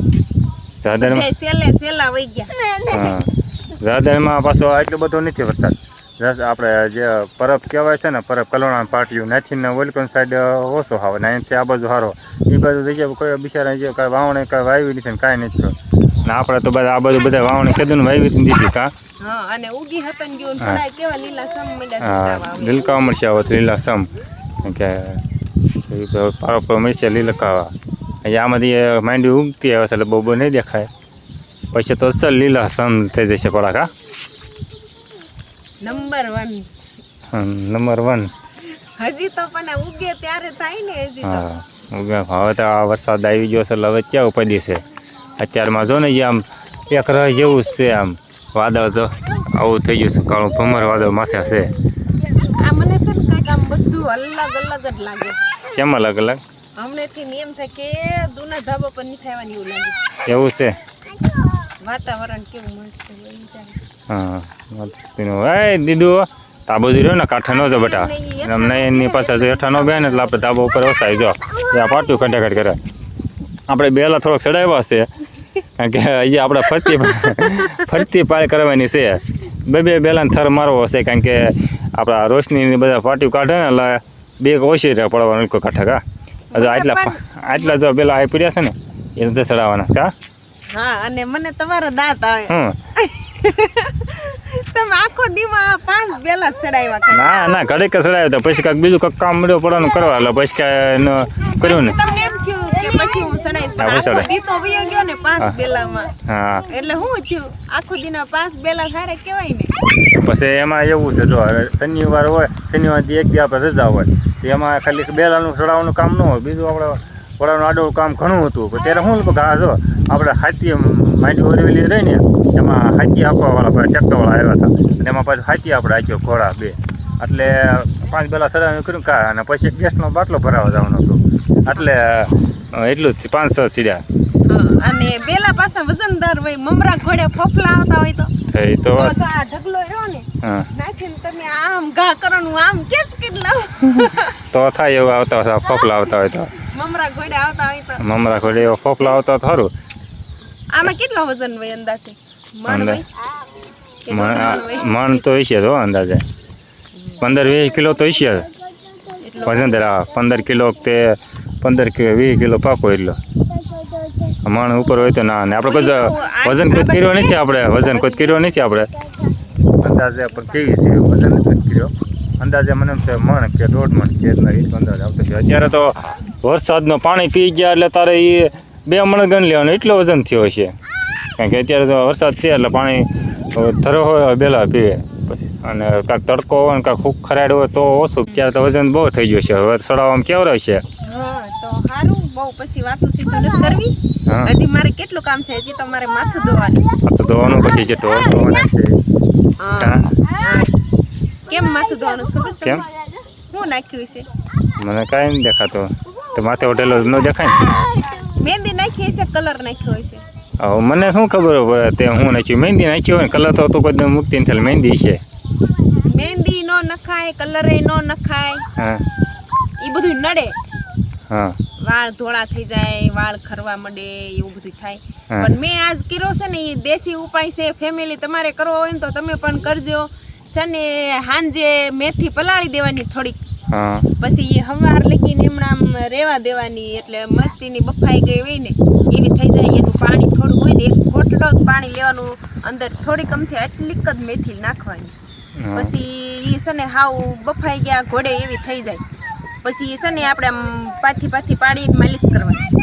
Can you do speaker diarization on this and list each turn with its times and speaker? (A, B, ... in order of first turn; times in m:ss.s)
0:00.8-0:01.3 A
0:00.9-0:02.9 B
0:02.9-0:18.9 A
0:19.2-0:23.0 B
0:22.0-0:24.1 A
0:24.6-0:25.2 A
0:25.8-0:27.7 A
0:28.2-0:30.9 A
0:31.7-0:33.9 A
0:35.8-0:36.7 B
0:37.3-0:38.3 A
0:38.7-0:41.5 B
0:41.2-0:44.8 A
0:45.4-0:51.7 A
0:52.3-0:55.4 B
0:55.7-0:56.4 A
0:56.8-1:00.0 B
1:00.3-1:00.8 A
1:01.8-1:03.8 B
1:04.1-1:12.8 A
1:07.5-1:10.4 B
1:13.7-1:15.1 A
1:15.8-1:26.0 A
1:16.7-1:17.9 B
1:26.5-1:27.7 B
1:26.6-1:30.1 A
1:30.7-1:37.6 B
1:32.5-1:32.8 A
1:37.1-1:42.0 A
1:41.4-1:46.1 B
1:43.8-1:44.3 A
1:46.2-1:46.7 A
1:46.7-1:49.7 B
1:50.1-2:14.0 A
2:14.4-2:18.3 B
2:18.5-2:19.2 A
2:18.9-2:24.4 B
2:20.4-2:20.7 A
2:24.5-2:26.5 A
2:26.6-2:28.0 B
2:28.0-2:29.7 A
2:30.7-2:33.2 B
2:32.7-2:33.0 A
2:34.0-2:35.2 B
2:34.1-2:36.2 A
2:37.2-2:38.5 A
2:39.1-2:39.9 B
2:39.4-2:43.2 A
2:44.4-2:48.9 A
2:45.6-2:48.4 B
2:49.8-3:00.7 A
3:01.4-3:10.8 A
3:11.0-3:16.9 B
3:17.0-3:19.0 A
3:19.6-3:20.7 B
3:19.8-3:20.1 A
3:21.5-3:22.9 B
3:23.5-3:24.3 B
3:24.8-3:27.7 A
3:27.8-3:30.2 B
3:30.6-3:35.2 A
3:36.0-3:38.6 B
3:38.8-3:39.0 A
3:39.8-3:40.6 B
3:41.3-3:41.6 A
3:41.8-3:53.4 B
3:53.7-3:54.1 A
3:54.2-4:05.1 B
4:05.6-4:05.9 A
4:05.7-4:09.0 B
4:09.6-4:12.7 B